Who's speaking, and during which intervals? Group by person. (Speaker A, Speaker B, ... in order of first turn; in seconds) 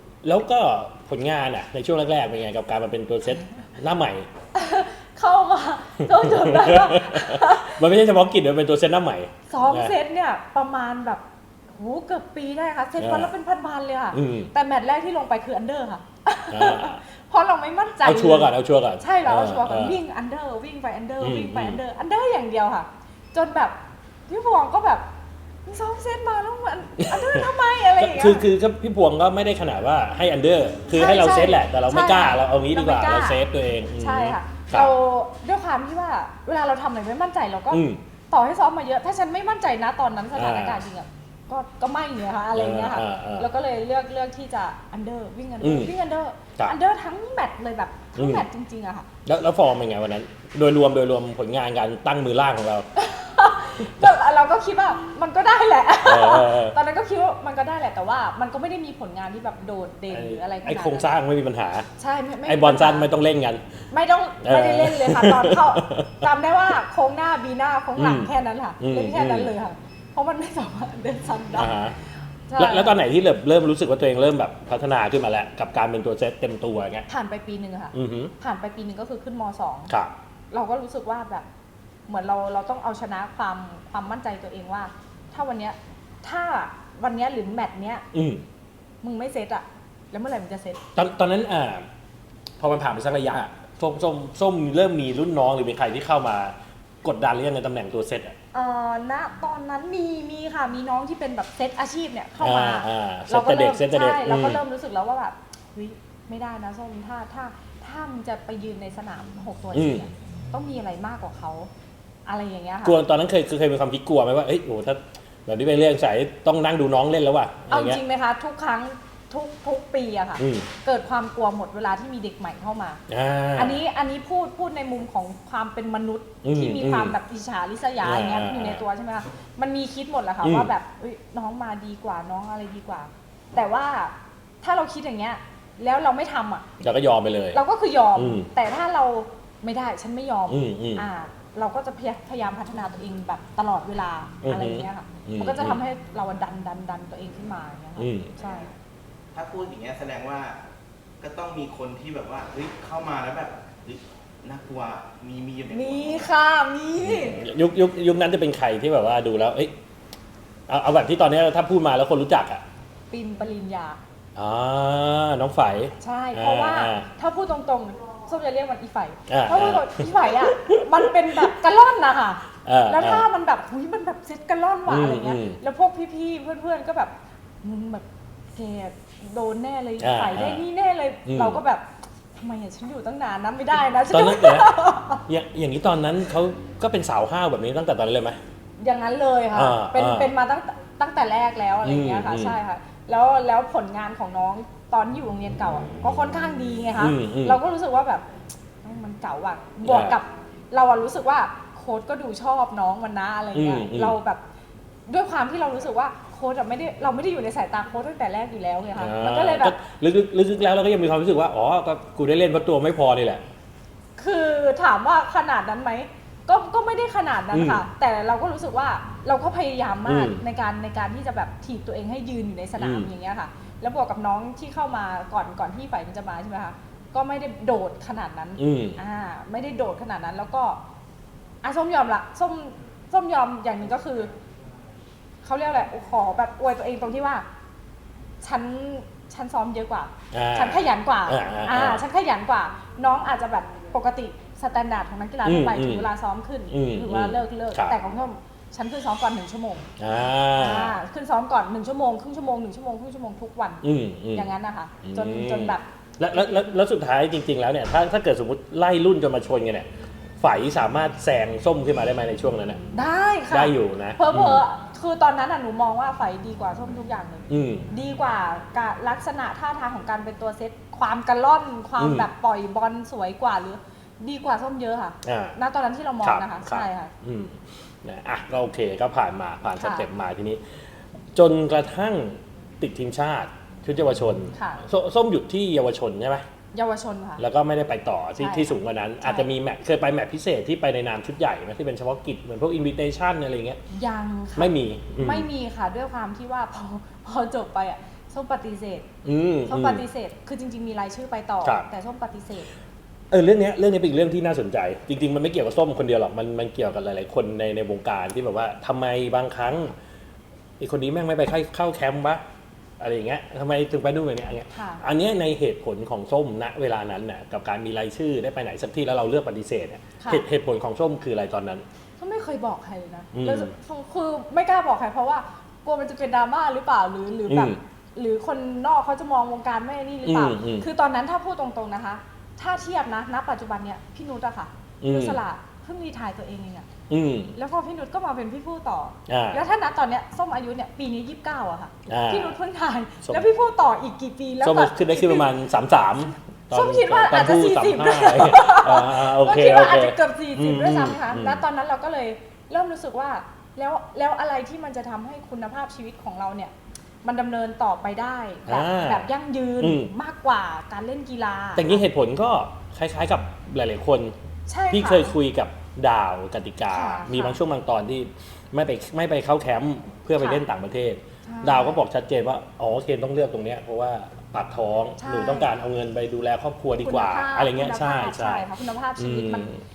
Speaker A: 0.2-4.3, 6.0-9.9, 13.0-13.3, 14.1-14.5, 16.5-17.0, 18.0-20.0, 21.2-21.8, 27.0-34.9, 37.7-38.0, 40.4-40.8, 42.5-43.5, 45.6-45.9, 48.2-48.5, 49.3-52.9, 56.0-56.8, 60.1-61.9, 62.5-63.7, 64.4-66.3, 68.0-69.5, 71.5-72.0, 72.6-77.1, 77.9-78.3, 79.9-80.1, 88.1-88.4, 91.0-91.9, 92.6-98.3, 102.4-104.6, 109.7-110.1, 112.8-118.0, 120.4-120.7, 123.1-123.8, 126.4-127.2, 128.0-128.8, 130.4-130.7, 136.8-137.6, 138.2-138.5, 140.5-141.1, 144.4-145.8, 148.0-148.4, 157.0-159.7, 160.7-162.6, 164.4-167.1, 169.3-171.5, 172.7-173.3, 174.9-175.6, 180.0-180.7, 181.3-181.6, 184.1-184.8, 185.3-188.4, 189.5-190.3, 191.8-192.6, 197.0-197.6, 199.8-200.2, 203.5-204.2, 209.0-213.4, 217.5-217.9, 220.1-220.4, 222.8-223.1, 228.6-229.0, 240.3-242.0, 245.4-246.1, 246.7-248.0, 250.0-251.0, 253.8-254.5, 255.0-259.9, 260.4-262.8, 263.5-264.6, 267.5-267.9, 272.0-272.3, 275.2-275.6, 276.2-286.4, 287.4-293.8, 294.6-295.5, 299.2-300.0, 303.3-310.0, 310.8-312.4, 313.0-321.9, 323.3-323.7, 327.5-327.8, 330.2-330.9, 335.0-335.4, 337.1-337.6, 339.3-339.6, 342.1-342.6, 344.6-351.6, 358.7-360.1, 361.8-364.4, 364.9-379.8
Speaker B: 4.5-7.8, 9.5-11.2, 11.8-23.8, 24.3-25.1, 25.7-28.5, 30.9-33.4, 34.0-49.1, 53.0-61.1, 62.0-63.1, 63.9-71.7, 72.5-73.0, 77.1-79.9, 80.5-81.5, 82.1-88.0, 89.0-90.8, 98.5-111.7, 112.3-113.0, 117.7-123.0, 123.5-136.7, 137.5-148.7, 155.7-157.4, 163.1-164.0, 166.0-185.2, 188.8-198.2, 198.8-204.4, 205.1-209.8, 214.2-230.8, 231.6-234.3, 235.4-237.5, 238.4-249.9, 250.6-255.8, 262.9-277.1, 279.8-280.1, 284.5-284.8, 286.7-287.4, 288.4-289.5, 293.9-299.1, 299.7-302.7, 314.7-315.0, 320.2-320.4, 322.2-336.9, 337.6-345.5, 346.7-356.7, 357.2-362.0, 364.7-365.4, 366.9-367.6, 370.4-370.6, 371.4-372.0, 375.2-375.7, 377.0-379.7
Speaker C: 149.3-150.6, 151.2-156.3